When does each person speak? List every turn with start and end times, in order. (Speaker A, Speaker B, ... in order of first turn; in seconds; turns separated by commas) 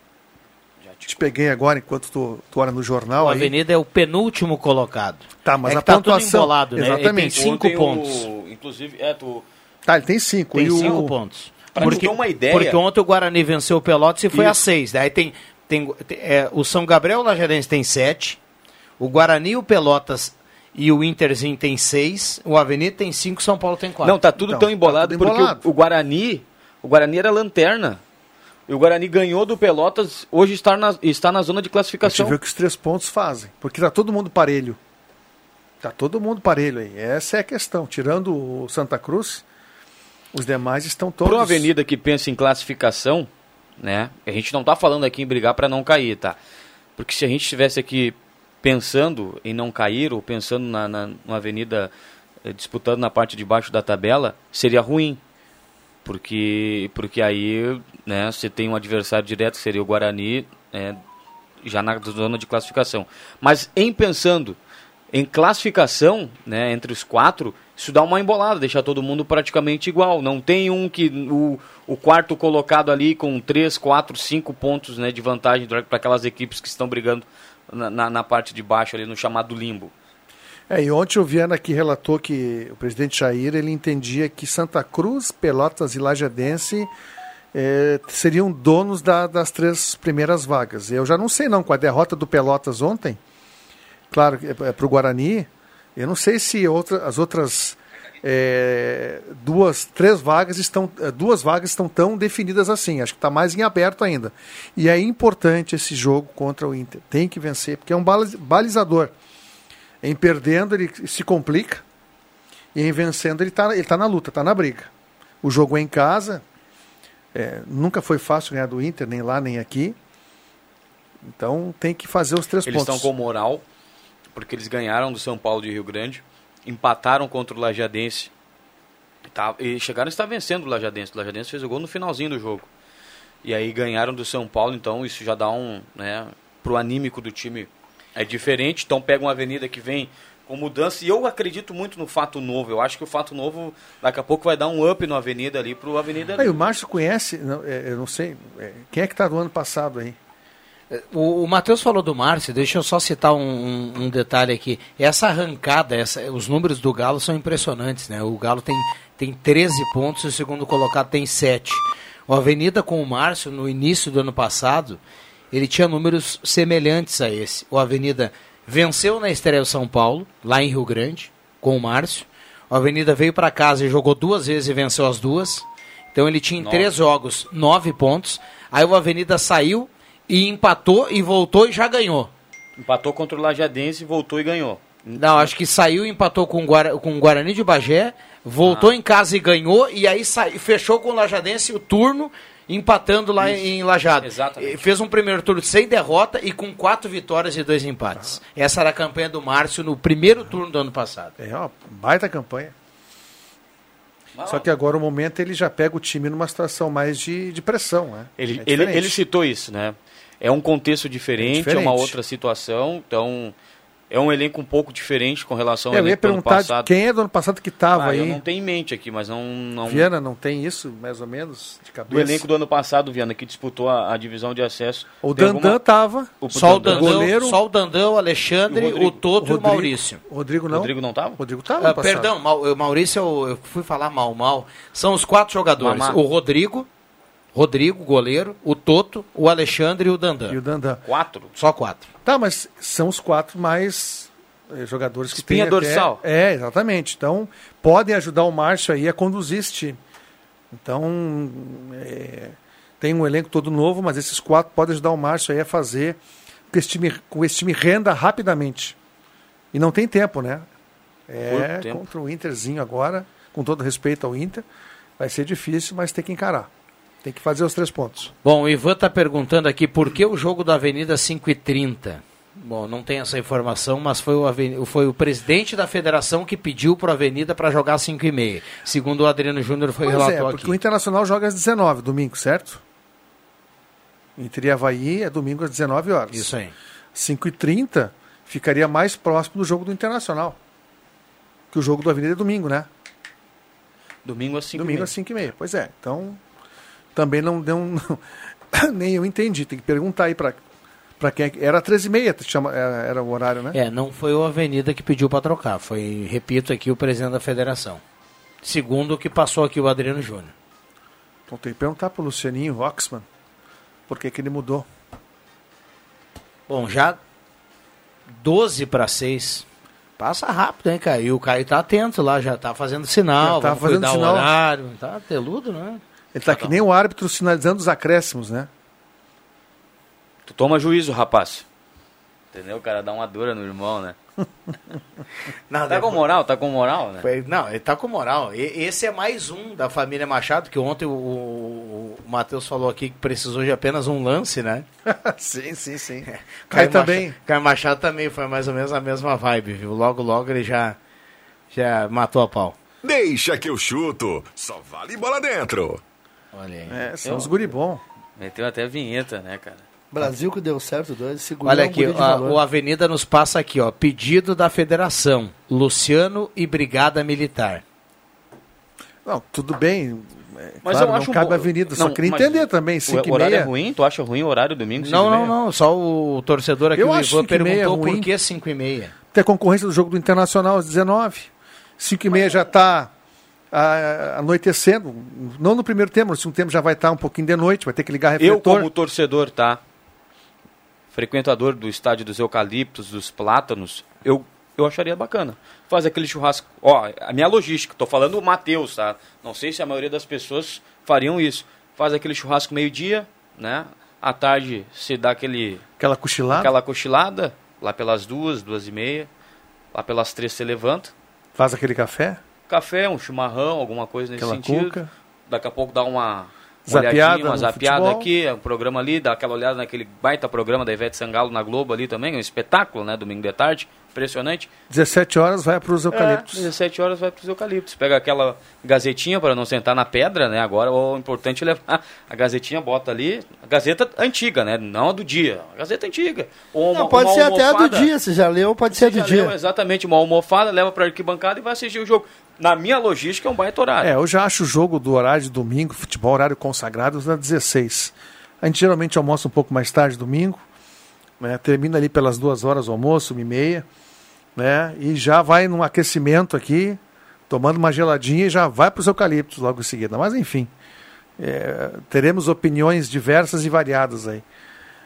Speaker A: 0.8-1.3, Speaker B: 1.1-3.5, Speaker C: 3.2-8.3, Speaker B: 5.5-7.4, Speaker A: 7.4-9.4, Speaker B: 9.9-11.1, Speaker C: 10.5-18.4, Speaker A: 11.7-12.8, Speaker B: 11.8-12.0, Speaker A: 14.3-14.6, Speaker C: 19.0-24.2, Speaker A: 24.0-28.0, Speaker B: 24.4-25.6, Speaker A: 28.7-32.4, Speaker B: 32.0-34.8, Speaker B: 35.8-39.4, Speaker B: 40.3-41.7, Speaker A: 41.2-46.4, Speaker A: 47.0-51.9, Speaker A: 52.4-55.2, Speaker A: 56.0-61.0, Speaker A: 61.6-64.6, Speaker A: 65.1-79.9, Speaker B: 80.7-86.9, Speaker B: 87.5-93.2, Speaker B: 94.1-109.1, Speaker B: 110.0-111.8, Speaker B: 112.8-114.9, Speaker B: 115.4-116.4, Speaker B: 117.3-120.0, Speaker B: 121.3-123.1, Speaker A: 122.7-123.6, Speaker A: 124.3-128.3, Speaker A: 129.3-132.7, Speaker A: 133.4-146.6, Speaker B: 146.4-150.2, Speaker C: 150.9-165.0, Speaker C: 165.5-182.3, Speaker A: 176.6-176.9, Speaker A: 182.8-185.5, Speaker C: 185.2-201.3, Speaker A: 188.6-188.9, Speaker A: 194.2-194.8, Speaker B: 201.4-202.7, Speaker A: 204.4-204.7, Speaker B: 204.4-209.2, Speaker A: 208.4-213.6, Speaker B: 211.4-212.2, Speaker A: 214.1-216.9, Speaker B: 215.9-218.4, Speaker A: 217.9-220.1, Speaker B: 219.8-222.5, Speaker A: 222.1-225.8, Speaker B: 225.2-227.6, Speaker A: 226.4-227.3, Speaker C: 226.5-230.2, Speaker A: 228.7-229.2, Speaker B: 229.4-232.3, Speaker A: 230.7-231.4, Speaker C: 231.8-236.9, Speaker A: 235.8-236.2, Speaker C: 237.6-240.6, Speaker B: 240.5-241.0, Speaker A: 241.1-241.5, Speaker C: 241.6-242.1, Speaker B: 242.2-250.0, Speaker A: 245.3-246.2, Speaker B: 250.7-256.2, Speaker B: 256.7-259.0, Speaker B: 259.7-260.7, Speaker B: 261.3-264.6, Speaker A: 261.4-262.0, Speaker B: 265.2-266.7, Speaker B: 267.2-268.3, Speaker C: 268.4-280.8, Speaker B: 280.0-282.8, Speaker B: 284.4-286.5, Speaker C: 286.3-286.7, Speaker B: 287.1-290.6, Speaker B: 291.7-292.9, Speaker A: 294.2-295.1, Speaker B: 294.8-296.4, Speaker B: 297.1-300.6, Speaker B: 301.2-303.8, Speaker C: 303.7-308.0, Speaker C: 308.6-310.5, Speaker B: 311.5-313.3, Speaker B: 314.1-314.9, Speaker C: 316.7-317.2, Speaker C: 318.3-319.7, Speaker C: 320.2-326.0, Speaker B: 323.4-324.5, Speaker B: 326.3-328.7, Speaker A: 326.5-326.8, Speaker A: 330.5-331.6, Speaker A: 332.5-334.2, Speaker C: 335.7-336.2, Speaker A: 335.9-337.2, Speaker C: 337.2-344.9, Speaker B: 345.1-347.4, Speaker C: 346.3-351.0, Speaker C: 351.7-352.8, Speaker D: 353.0-356.0, Speaker C: 356.5-357.0, Speaker B: 356.9-358.0, Speaker A: 357.2-357.6, Speaker A: 358.4-359.8, Speaker E: 360.1-362.6, Speaker C: 361.6-367.8, Speaker B: 369.2-373.7, Speaker A: 370.8-375.5, Speaker C: 375.0-379.1, Speaker B: 376.9-378.3, Speaker B: 379.3-383.1, Speaker B: 383.7-388.9, Speaker A: 388.4-389.8, Speaker A: 391.1-405.8, Speaker B: 406.0-406.7, Speaker A: 406.5-409.3, Speaker A: 409.9-411.1, Speaker B: 411.6-412.4, Speaker A: 412.7-415.0, Speaker B: 414.4-415.1, Speaker A: 415.5-424.7, Speaker B: 416.9-418.3, Speaker B: 424.9-426.7, Speaker A: 426.1-438.1, Speaker E: 436.9-439.5, Speaker A: 438.9-444.1, Speaker B: 444.0-450.6, Speaker B: 451.4-453.9, Speaker B: 454.6-460.7, Speaker B: 461.4-464.4